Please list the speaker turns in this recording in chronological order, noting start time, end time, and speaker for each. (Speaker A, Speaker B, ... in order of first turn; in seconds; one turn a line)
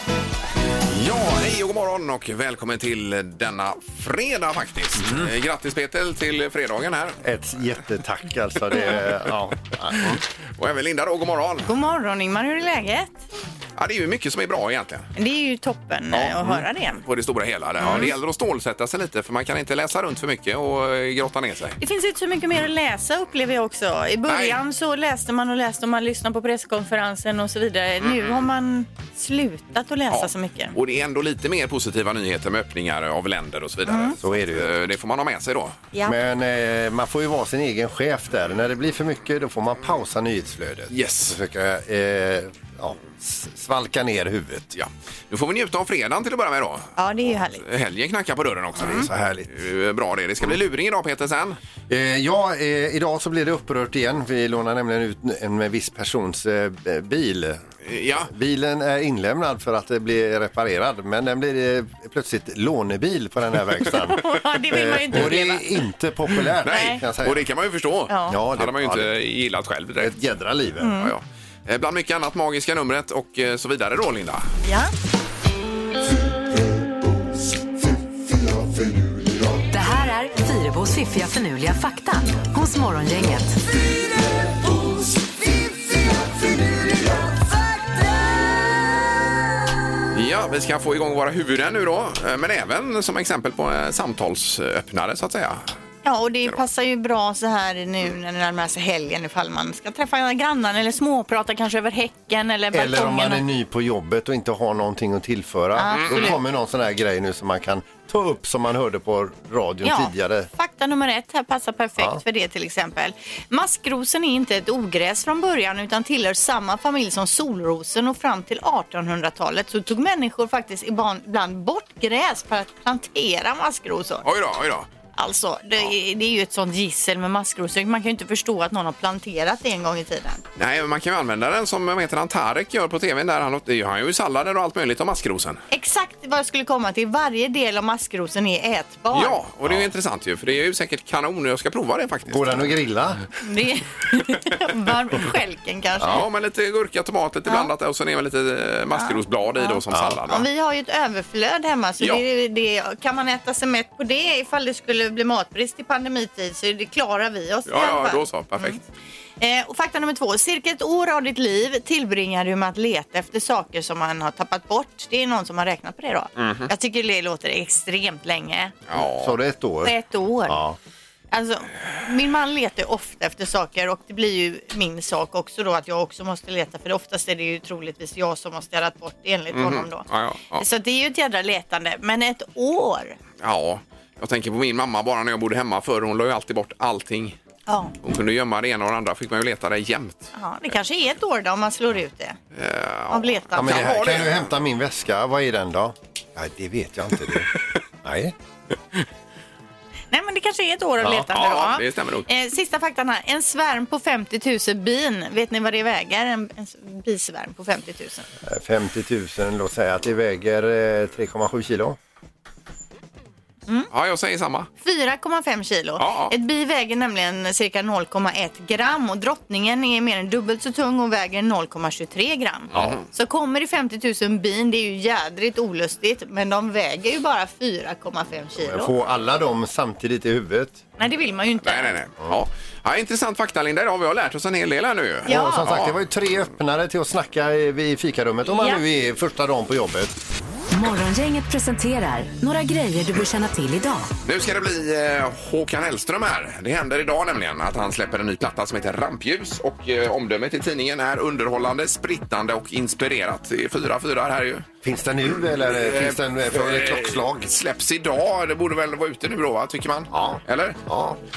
Speaker A: 0.9-7.2
Speaker B: 5.0-5.3
Speaker B: 7.2-10.2
Speaker A: 9.9-11.7
Speaker C: 11.7-13.2
Speaker A: 13.8-15.1
Speaker C: 15.2-17.0
Speaker A: 16.1-21.8
Speaker C: 17.8-18.1
Speaker C: 21.8-30.7
Speaker A: 24.3-24.6
Speaker A: 28.0-28.4
Speaker A: 30.1-35.8
Speaker C: 33.9-34.1
Speaker B: 34.2-34.7
Speaker B: 36.0-44.7
Speaker A: 40.9-41.4
Speaker A: 44.8-47.0
Speaker C: 47.0-47.6
Speaker A: 47.6-51.6
Speaker C: 48.8-49.1
Speaker B: 48.8-49.5
Speaker B: 51.9-57.6
Speaker A: 57.9-58.3
Speaker B: 58.2-67.5
Speaker C: 63.9-65.6
Speaker A: 66.6-70.2
Speaker C: 66.7-67.0
Speaker C: 68.1-68.4
Speaker B: 68.3-69.1
Speaker B: 70.0-70.9
Speaker C: 70.8-71.1
Speaker A: 71.0-74.5
Speaker C: 74.6-74.9
Speaker D: 79.7-83.6
Speaker A: 90.1-95.7
Speaker C: 96.0-103.4
Speaker B: 102.7-110.5
Speaker C: 105.8-106.4
Speaker A: 105.9-106.3
Speaker C: 109.8-124.3
Speaker A: 124.2-124.9
Speaker C: 125.2-130.4
Speaker A: 130.6-135.6
Speaker C: 135.7-139.4
Speaker A: 139.1-142.8
Speaker B: 142.3-143.2
Speaker C: 143.4-146.2
Speaker A: 146.0-150.5
Speaker C: 148.9-158.8
Speaker B: 149.9-150.2
Speaker A: 157.7-158.8
Speaker C: 159.4-168.8
Speaker A: 166.4-166.7
Speaker A: 168.9-169.4
Speaker B: 169.0-169.9
Speaker C: 169.8-170.6
Speaker B: 170.5-170.8
Speaker C: 171.3-183.2
Speaker A: 179.5-180.7
Speaker A: 183.4-187.4
Speaker C: 187.7-187.9
Speaker A: 188.0-190.3
Speaker C: 190.3-192.4
Speaker A: 192.5-194.5
Speaker C: 193.1-193.9
Speaker B: 193.6-197.5
Speaker B: 198.0-198.3
Speaker C: 200.1-208.3
Speaker B: 201.0-201.3
Speaker A: 201.3-202.3
Speaker B: 208.4-212.0
Speaker A: 213.9-214.7
Speaker C: 214.8-228.9
Speaker A: 216.0-216.3
Speaker A: 222.7-223.1
Speaker B: 228.6-230.8
Speaker C: 231.0-231.9
Speaker A: 231.6-236.0
Speaker B: 235.3-240.2
Speaker C: 235.3-235.7
Speaker C: 238.5-238.8
Speaker D: 240.7-244.1
Speaker A: 244.2-254.7
Speaker B: 254.8-257.5
Speaker A: 255.5-260.8
Speaker B: 260.1-261.2